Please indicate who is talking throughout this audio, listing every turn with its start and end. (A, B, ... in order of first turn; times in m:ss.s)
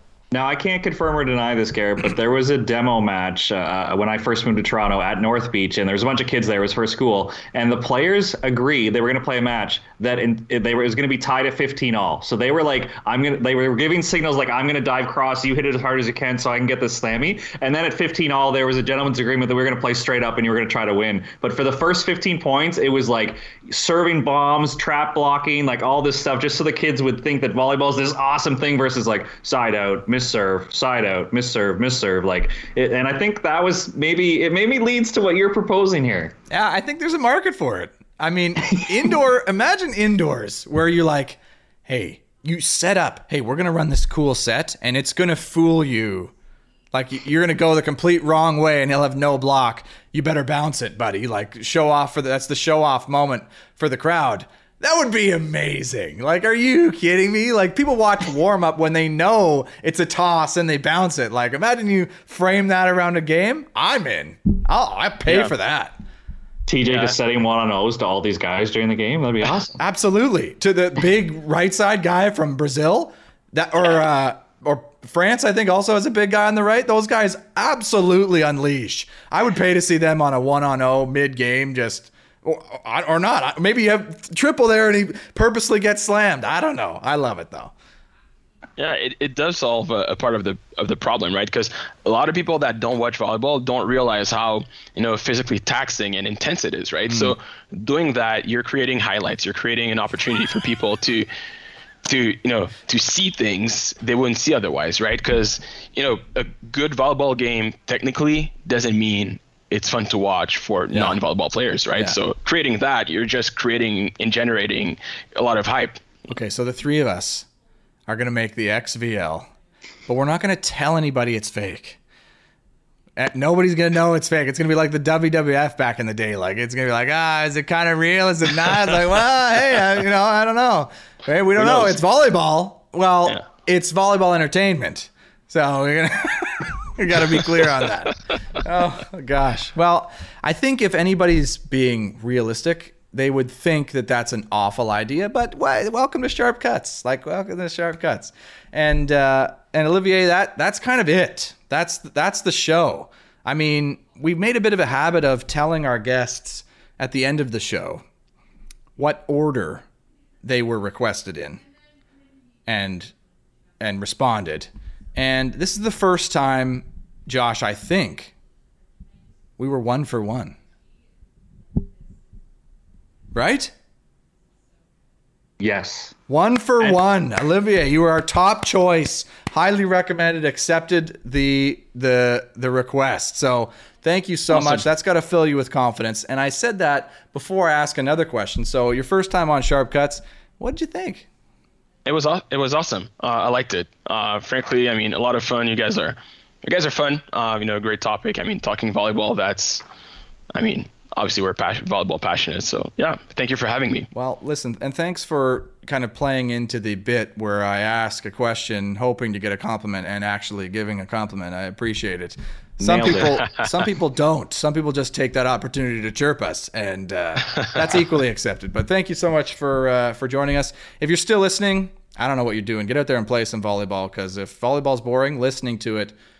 0:00.3-0:36.4 A
0:36.5-0:46.3 B
0:46.9-1:06.0 B
1:06.7-1:09.8 A
1:06.9-1:07.1 C
1:09.8-1:27.7 B
1:28.8-1:41.3 C
1:37.1-1:37.4 B
1:42.0-1:56.2 C
1:50.9-1:51.2 B
1:56.3-1:57.5 B
1:58.1-1:59.5 B
2:00.1-2:02.0 B
2:03.2-2:38.0 B
2:11.6-2:12.0 C
2:39.0-2:39.8 B
2:40.4-2:41.6 B
2:42.6-2:43.1 B
2:43.8-2:48.3 B
2:49.6-2:50.6 B
2:53.3-2:53.7 B
2:55.6-2:56.1 A
2:56.3-3:11.3 B
3:04.5-3:04.8 C
3:12.0-3:19.8 C
3:20.5-3:24.1 C
3:24.1-3:46.1 B
3:32.8-3:33.5 A